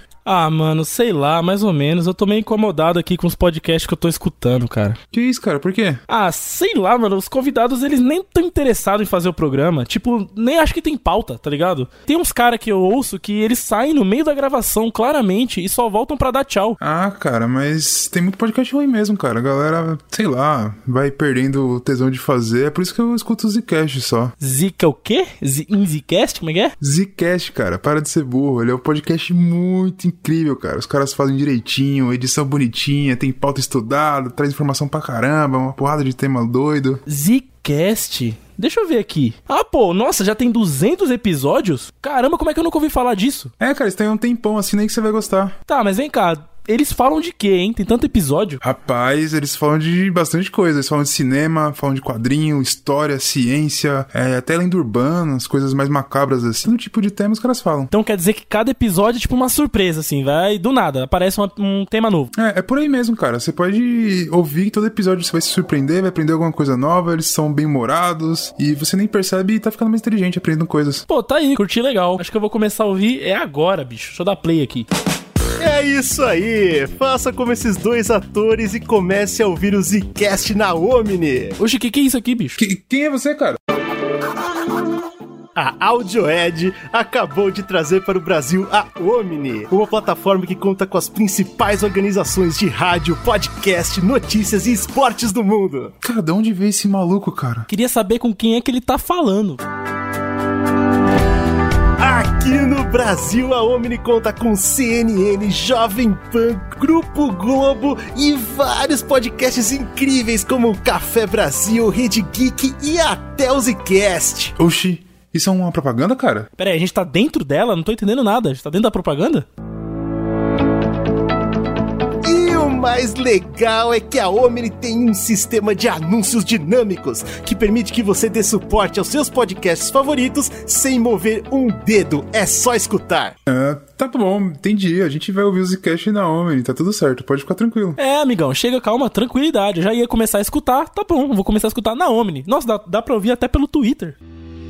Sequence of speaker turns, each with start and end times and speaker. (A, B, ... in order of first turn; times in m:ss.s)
0:00.2-0:05.0 A
0:05.1-0:06.0 B
0:06.1-0:16.8 A
0:16.8-0:24.3 B
0:24.4-0:26.7 A
0:26.8-0:37.0 B
0:37.1-0:43.5 A
0:43.6-0:45.6 B
0:45.7-0:48.6 A
0:48.6-0:57.9 B
0:57.9-1:02.3 A
1:02.3-1:11.0 B
1:11.1-1:14.9 A
1:15.6-1:21.6 C
1:21.6-1:22.6 A
1:22.6-1:23.6 B
1:25.5-1:35.9 C
1:36.0-1:37.7 B
1:37.7-1:39.6 A
1:42.0-1:54.5 C
1:54.6-1:56.5 B
1:56.6-1:59.4 A
2:02.2-2:13.3 C
2:13.5-2:18.0 B
2:18.0-2:24.2 A